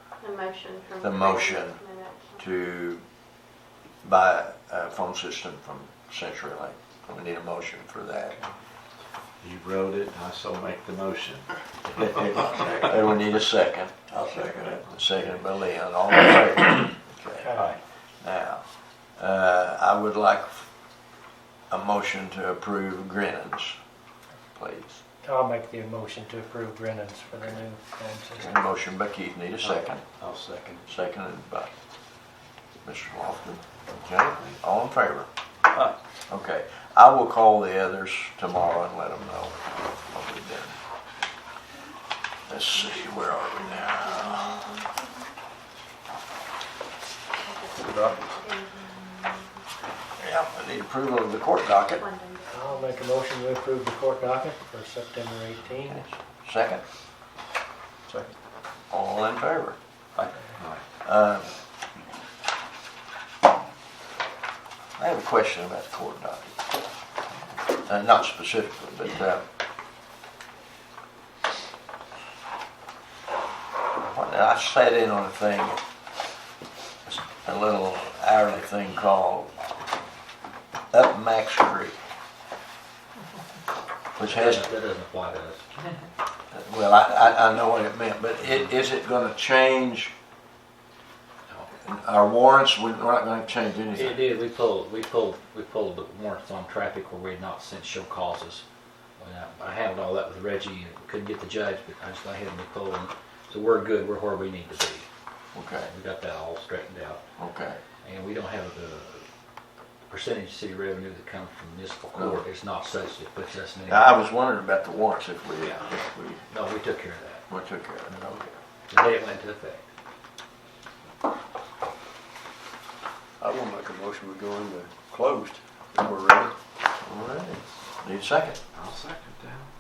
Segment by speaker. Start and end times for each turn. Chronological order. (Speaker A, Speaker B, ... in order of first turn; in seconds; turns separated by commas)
Speaker A: 0.2-2.4, Speaker B: 1.0-3.0, Speaker B: 4.0-8.4, Speaker C: 9.4-12.5, Speaker B: 12.2-17.5, Speaker D: 17.4-17.8, Speaker B: 18.2-20.7, Speaker B: 21.7-23.8, Speaker B: 24.6-25.0, Speaker D: 25.2-28.5, Speaker B: 28.4-30.0, Speaker C: 30.2-30.6, Speaker B: 30.9-31.7, Speaker B: 32.8-35.3, Speaker B: 36.3-40.8, Speaker B: 42.5-44.8, Speaker E: 47.8-48.2, Speaker B: 50.2-52.1, Speaker A: 52.0-52.5, Speaker D: 52.5-56.1, Speaker B: 55.8-56.8, Speaker B: 58.9-59.8, Speaker C: 60.2-60.8, Speaker B: 61.0-61.5, Speaker B: 65.0-66.5, Speaker B: 67.8-69.5, Speaker B: 74.0-75.8, Speaker B: 77.0-79.5, Speaker B: 80.9-82.0, Speaker B: 84.2-84.7, Speaker F: 84.2-85.7, Speaker B: 86.5-90.1, Speaker B: 91.8-94.2, Speaker F: 93.9-98.6, Speaker F: 99.2-105.1, Speaker B: 105.5-105.9, Speaker F: 105.8-107.2, Speaker B: 107.4-107.8, Speaker F: 108.0-109.3, Speaker F: 110.1-114.2, Speaker B: 113.9-116.4, Speaker F: 115.6-115.9, Speaker F: 116.5-117.4, Speaker B: 117.5-118.5, Speaker F: 118.9-119.9, Speaker E: 123.4-126.5, Speaker B: 127.0-128.6, Speaker C: 128.7-129.7